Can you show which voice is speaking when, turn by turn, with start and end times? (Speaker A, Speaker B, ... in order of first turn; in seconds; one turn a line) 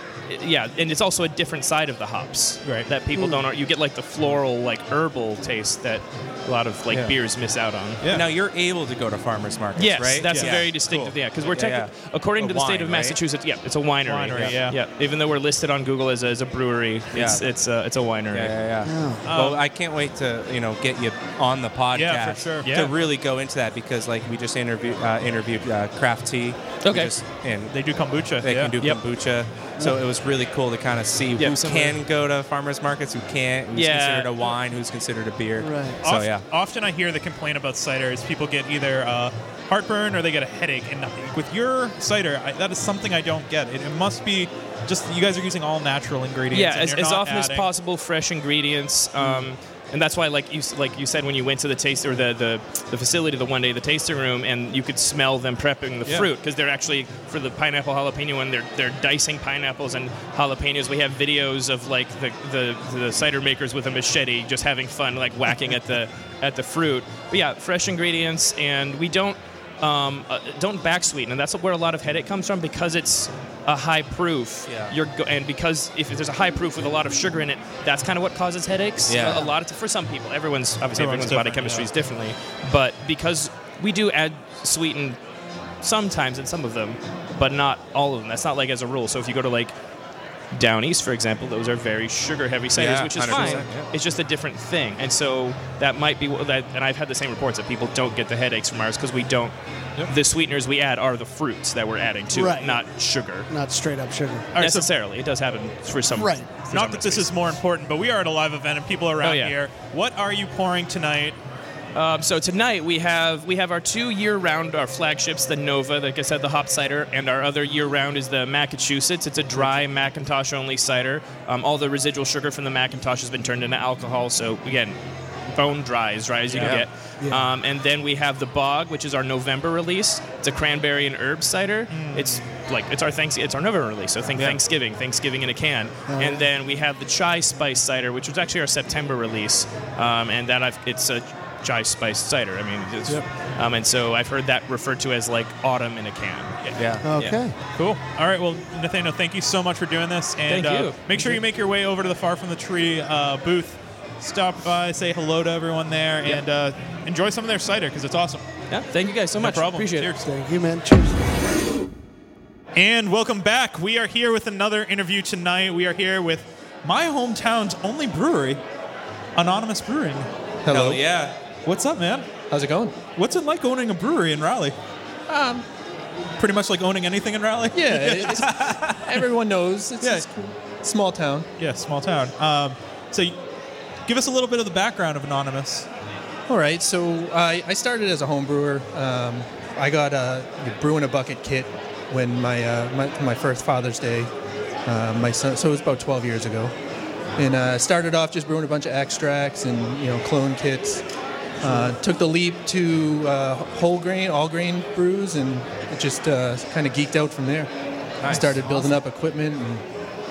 Speaker A: 0.3-8.0
Speaker B: 2.6-2.9
Speaker C: 3.1-3.4
Speaker D: 6.9-7.1
Speaker B: 8.0-8.3
Speaker D: 8.1-13.2
Speaker A: 9.8-18.6
Speaker B: 10.3-10.6
Speaker B: 14.0-14.8
Speaker D: 17.1-17.5
Speaker D: 18.3-27.7
Speaker C: 18.8-19.2
Speaker B: 19.2-19.6
Speaker B: 21.9-22.9
Speaker A: 26.8-27.2
Speaker B: 27.7-28.7
Speaker D: 28.4-36.4
Speaker A: 31.4-32.0
Speaker A: 33.7-34.4
Speaker C: 35.6-36.0
Speaker B: 36.0-47.7
Speaker A: 46.5-85.2
Speaker B: 49.2-49.5
Speaker D: 74.7-75.0
Speaker D: 79.0-79.5
Speaker B: 80.9-81.9
Speaker A: 85.8-89.7
Speaker A: 90.5-103.5
Speaker D: 92.7-93.9
Speaker C: 102.3-102.9
Speaker C: 103.5-104.5
Speaker B: 104.5-104.9
Speaker A: 104.6-107.3
Speaker C: 106.1-106.5
Speaker B: 106.6-111.4
Speaker A: 109.2-109.6
Speaker A: 111.9-125.0
Speaker A: 125.5-148.0
Speaker D: 126.5-126.8
Speaker C: 127.2-127.5
Speaker B: 131.9-132.4
Speaker D: 134.3-134.6
Speaker C: 136.1-136.4
Speaker D: 146.8-147.1
Speaker C: 147.0-147.5
Speaker B: 147.8-158.4
Speaker A: 150.4-151.3
Speaker A: 158.7-160.1
Speaker B: 159.4-160.3
Speaker C: 160.2-161.2
Speaker B: 162.7-168.6
Speaker B: 169.4-170.3
Speaker E: 170.7-171.0
Speaker D: 170.7-171.4
Speaker B: 171.6-172.3
Speaker E: 172.5-172.9
Speaker B: 173.2-174.8
Speaker E: 175.3-175.6
Speaker B: 176.4-178.8
Speaker E: 177.7-181.5
Speaker B: 181.6-183.4
Speaker B: 184.1-185.9
Speaker E: 186.5-194.3
Speaker E: 194.8-196.7
Speaker E: 197.4-201.0
Speaker E: 201.6-207.7
Speaker D: 208.2-208.6
Speaker E: 208.2-209.8